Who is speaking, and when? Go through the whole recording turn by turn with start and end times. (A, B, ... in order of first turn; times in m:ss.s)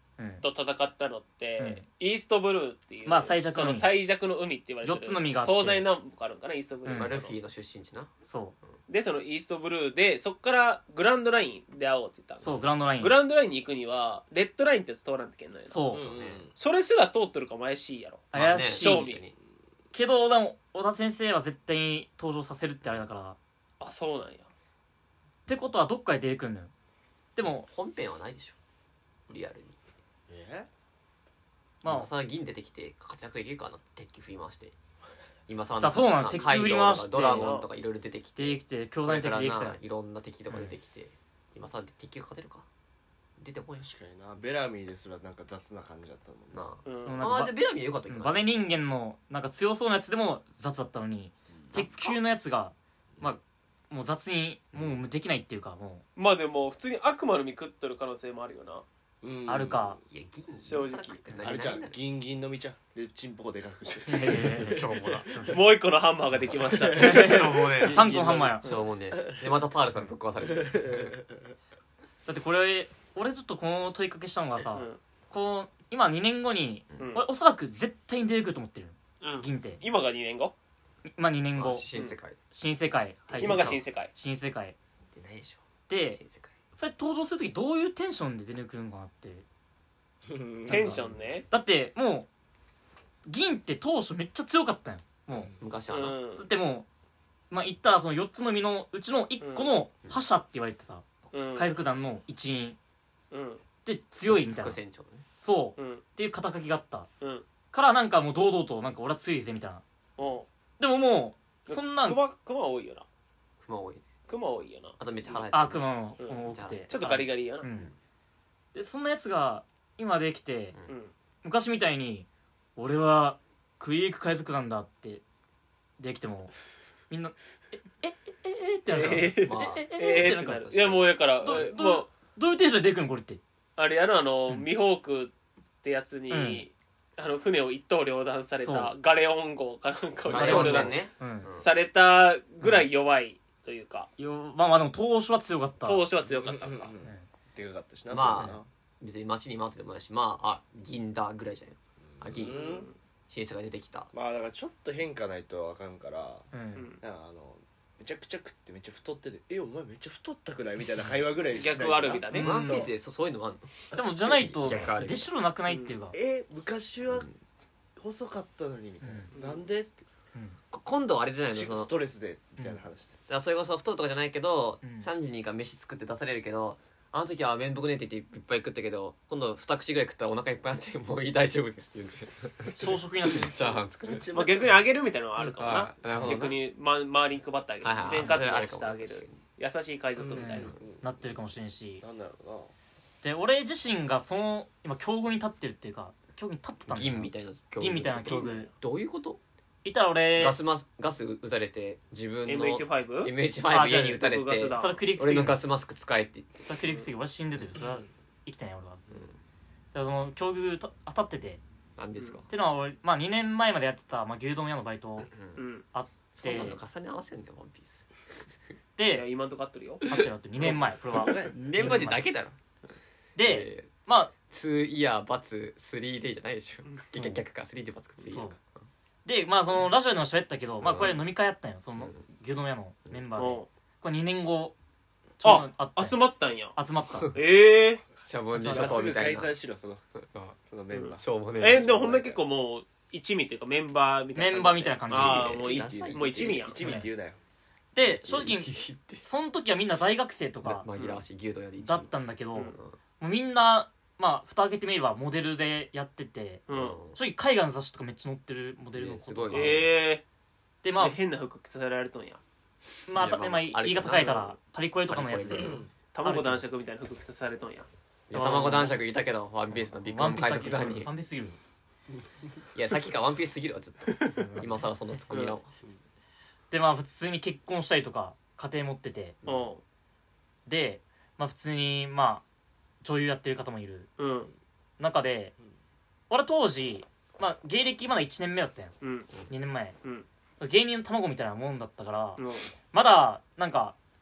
0:00.2-0:00.4 A
0:00.4-0:07.3 B
0:01.6-0:01.8 A
0:03.0-0:03.9 A
0:04.8-0:05.8 A
0:06.8-0:07.2 A
0:06.9-0:08.1 C
0:08.3-0:08.5 A
0:08.9-0:15.8 B
0:12.4-0:13.2 A
0:15.7-0:16.1 A
0:15.9-0:16.5 D
0:16.0-0:16.4 C
0:16.6-0:19.2 B
0:18.3-0:19.1 A
0:18.3-0:19.3 C
0:19.9-0:23.4 A
0:23.8-0:24.5 B
0:25.5-0:26.7 A
0:27.4-0:27.7 A
0:27.7-0:28.6 C
0:29.3-0:29.8 C
0:30.3-0:30.7 D
0:31.8-0:32.1 A
0:31.8-0:34.8 C
0:35.5-0:42.6 C
0:35.8-0:37.6 A
0:37.3-0:37.7 B
0:38.4-0:39.8 A
0:43.4-0:43.9 C
0:43.8-0:46.7 D
0:46.5-0:48.4 C
0:46.8-0:47.2 B
0:47.0-0:56.0 A
0:51.7-0:52.2 C
0:56.2-0:58.8 B
0:59.2-1:00.0 D
0:59.5-1:00.0 A
1:00.1-1:02.0 C
1:00.6-1:01.2 B
1:01.4-1:05.5 D
1:04.1-1:05.5 A
1:04.1-1:05.6 C
1:05.5-1:07.4 B
1:06.5-1:08.5 D
1:06.9-1:08.7 A
1:06.9-1:11.2 C
1:09.1-1:09.5 D
1:10.4-1:11.4 D
1:12.2-1:19.8 A
1:14.7-1:15.0 B
1:17.0-1:17.2 B
1:19.2-1:20.5 B
1:21.1-1:21.9 A
1:21.6-1:22.4 C
1:22.5-1:24.8 A
1:23.3-1:23.8 C
1:23.4-1:24.1 B
1:25.1-1:26.5 C
1:25.9-1:26.2 A
1:26.8-1:29.4 A
1:30.3-1:31.1 D
1:30.7-1:31.4 B
1:30.7-1:32.3 A
1:30.8-1:31.0 C
1:33.2-1:35.5 A
1:35.3-1:35.6 D
1:35.6-1:36.2 C
1:35.9-1:36.5 B
1:36.4-1:36.9 A
1:37.5-1:41.0 A
1:39.4-1:39.7 B
1:41.3-1:41.7 B
1:41.5-1:42.8 A
1:43.3-1:43.6 B
1:43.8-1:44.8 A
1:44.3-1:45.2 C
1:45.4-1:47.1 A
1:45.8-1:46.0 B
1:47.2-1:47.4 B
1:47.7-1:49.8 A
1:50.2-1:50.5 B
1:50.8-1:52.2 A
1:51.7-1:53.0 B
1:53.6-1:54.0 C
1:54.3-1:55.0 B
1:55.0-1:57.0 C
1:55.5-1:57.9 A
1:56.2-1:57.7 B
1:58.7-2:00.8 A
2:01.4-2:05.2 A
2:06.0-2:06.5 A
2:07.1-2:10.7 A
2:08.9-2:12.1 B
2:09.1-2:11.7 C
2:11.4-2:13.4 A
2:13.8-2:24.1 B
2:16.3-2:16.6 A
2:18.6-2:18.9 A
2:20.2-2:21.7 C
2:20.3-2:21.5 A
2:24.2-2:26.0 A
2:25.8-2:26.9 B
2:26.2-2:28.6 D
2:28.1-2:32.6 C
2:32.1-2:32.9 D
2:32.4-2:32.9 B
2:33.3-2:34.1 C
2:34.1-2:36.5 D
2:36.5-2:36.9 A
2:36.7-2:37.0 B
2:37.0-2:42.8 D
2:41.5-2:42.9 B
2:42.3-2:42.8 A
2:42.3-2:45.3 C
2:43.9-2:46.2 A
2:45.7-2:46.0 B
2:46.1-2:47.3 D
2:48.0-2:50.0 D
2:49.0-2:49.3 A
2:50.7-2:51.9 C
2:51.5-2:53.2 D
2:53.3-3:04.4 C
2:54.8-2:55.1 A
3:02.8-3:03.8 A
3:04.1-3:04.9 D
3:04.3-3:10.7 B
3:05.6-3:06.3 D
3:05.8-3:06.6 C
3:07.8-3:09.4 C
3:08.0-3:08.4 A
3:10.2-3:11.1 D
3:10.4-3:12.0 A
3:12.0-3:12.7 D
3:13.2-3:18.7 A
3:16.9-3:19.4 C
3:19.8-3:20.6 A
3:20.4-3:26.7 C
3:22.4-3:23.3 B
3:23.7-3:25.6 A
3:23.9-3:25.0 B
3:26.6-3:29.0 A
3:29.1-3:29.4 C
3:29.9-3:31.6 A
3:32.0-3:32.5 C
3:32.5-3:35.3 A
3:35.3-3:35.6 C
3:35.6-3:35.8 B
3:35.9-3:36.8 A
3:36.4-3:38.1 C
3:39.0-3:39.2 A
3:39.1-3:40.0 B
3:40.0-3:42.3 A
3:40.6-3:41.5 D
3:41.2-3:42.5 C
3:43.4-3:44.3 A
3:43.4-3:48.7 C
3:48.2-3:48.5 A
3:49.2-3:54.7 A
3:50.8-3:51.2 C
3:53.4-3:53.7 B
3:55.4-3:56.2 A
3:55.4-3:56.8 B
3:56.7-3:57.4 A
3:57.3-3:58.0 B
3:58.2-3:59.5 C
3:58.5-3:59.1 A
3:58.6-4:00.0 D
4:00.2-4:00.5 C
4:00.6-4:01.2 D
4:00.9-4:06.9 B
4:01.2-4:02.4 C
4:04.3-4:05.6 A
4:05.1-4:06.8 C
4:05.5-4:07.4 D
4:06.8-4:07.1 A
4:07.9-4:08.7 A
4:08.0-4:09.2 C
4:09.2-4:10.9 A
4:10.6-4:13.0 C
4:10.9-4:11.2 B
4:11.8-4:19.9 A
4:16.7-4:17.0 B
4:16.7-4:17.2 C
4:19.0-4:19.9 C
4:19.5-4:20.2 B
4:20.8-4:21.2 A
4:21.0-4:22.4 B
4:23.1-4:26.6 A
4:23.1-4:24.5 C
4:25.1-4:25.8 C
4:25.6-4:25.9 D
4:26.1-4:27.9 B
4:28.3-4:31.1 C
4:28.3-4:29.0 A
4:30.0-4:31.6 A
4:32.7-4:35.7 C
4:34.4-4:34.6 A
4:35.3-4:35.6 B
4:36.7-4:39.4 A
4:39.4-4:39.7 C
4:39.4-4:39.8 B
4:40.6-4:42.4 A
4:43.0-4:44.1 A
4:44.2-4:44.5 B
4:45.0-4:45.5 A
4:46.3-4:48.9 A
4:49.0-4:49.3 B
4:49.5-4:50.0 A
4:50.6-4:52.4 A
4:52.4-4:52.7 B
4:52.9-4:54.0 A